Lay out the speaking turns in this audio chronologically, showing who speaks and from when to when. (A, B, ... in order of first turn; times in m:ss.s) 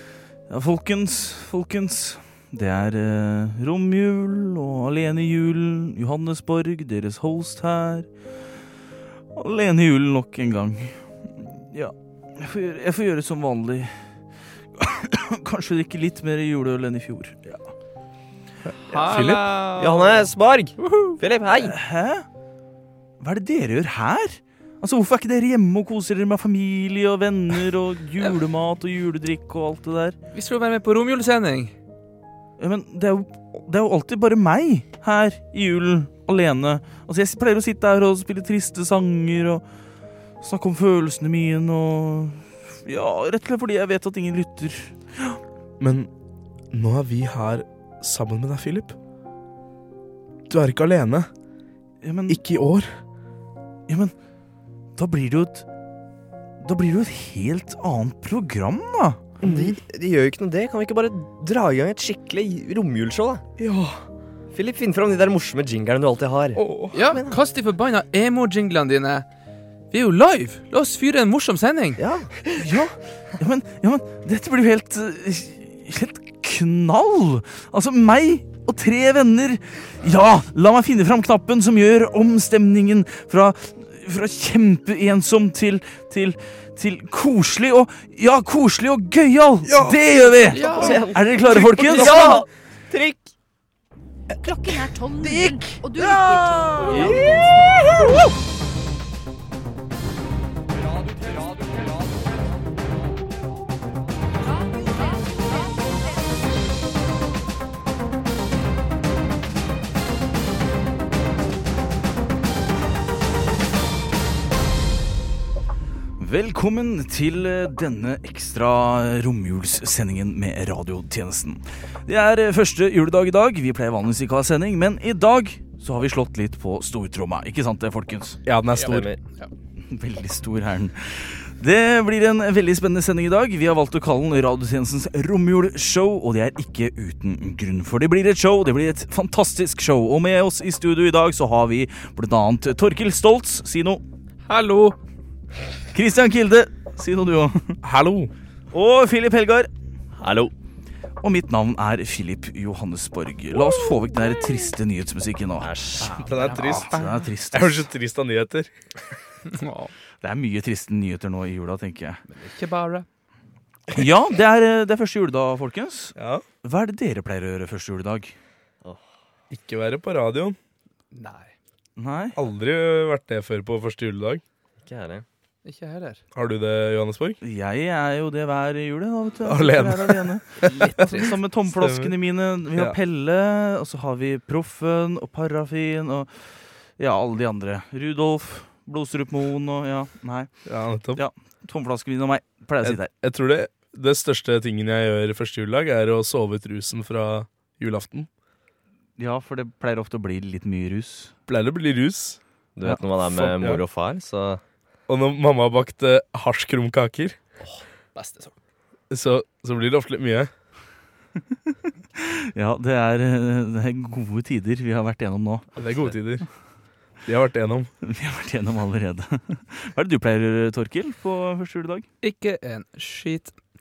0:00.5-0:08.1 A
0:09.3-0:14.1 A
0:14.8-0:17.6 A
0:18.9-0:20.3 B
0:19.0-0:19.4 C
0:19.8-0:21.8 D
0:20.8-0:21.2 B
0:21.6-0:22.3 A
0:23.2-0:30.2 A
0:30.3-0:31.7 B
0:32.6-0:39.6 A
0:40.4-0:45.4 A
0:45.8-0:46.1 C
0:46.7-0:49.0 C
0:50.5-0:51.3 C
0:52.0-0:52.4 A
0:52.3-0:52.9 C
0:53.9-0:54.1 A
0:55.0-0:55.7 A
0:56.6-0:59.2 A
0:59.4-1:03.4 D
0:59.4-0:59.8 C
1:03.6-1:04.0 C
1:04.5-1:07.4 D
1:06.6-1:07.0 C
1:06.9-1:09.3 B
1:09.9-1:12.0 B
1:12.0-1:12.4 D
1:12.6-1:32.4 A
1:29.7-1:30.0 C
1:30.5-1:31.1 B
1:30.6-1:33.3 D
1:31.5-1:32.4 C
1:34.4-1:37.7 E
1:35.2-1:37.2 A
1:36.9-1:38.3 D
1:56.2-2:08.4 A
2:08.5-2:09.2 C
2:08.8-2:09.2 D
2:09.8-2:24.0 A
2:24.5-2:25.0 B
2:25.9-2:27.8 A
2:27.8-2:28.3 C
2:28.7-2:29.7 A
2:30.2-2:30.5 D
2:31.2-2:35.8 A
2:35.6-2:36.4 D
2:36.0-2:37.0 B
2:36.1-2:38.7 C
2:36.4-2:37.9 A
2:39.5-2:39.9 B
2:40.2-2:42.2 A
2:42.3-2:43.1 B
2:43.9-2:48.4 A
2:46.2-2:46.4 C
2:49.5-2:50.6 C
2:51.1-2:51.5 B
2:52.0-2:52.4 A
2:52.4-2:54.4 C
2:54.8-2:55.2 D
2:55.6-2:56.2 B
2:56.3-2:57.4 C
2:57.4-3:06.4 A
2:59.4-3:02.2 C
3:00.6-3:01.2 B
3:07.0-3:10.5 A
3:10.7-3:11.2 C
3:11.2-3:13.1 A
3:12.8-3:18.3 C
3:19.2-3:21.3 A
3:21.5-3:22.4 C
3:22.8-3:24.6 D
3:23.2-3:23.8 C
3:25.1-3:27.4 C
3:27.6-3:28.6 B
3:29.1-3:30.5 C
3:32.2-3:35.7 A
3:35.8-3:36.4 C
3:37.3-3:37.9 C
3:38.0-3:42.1 A
3:42.2-3:43.6 B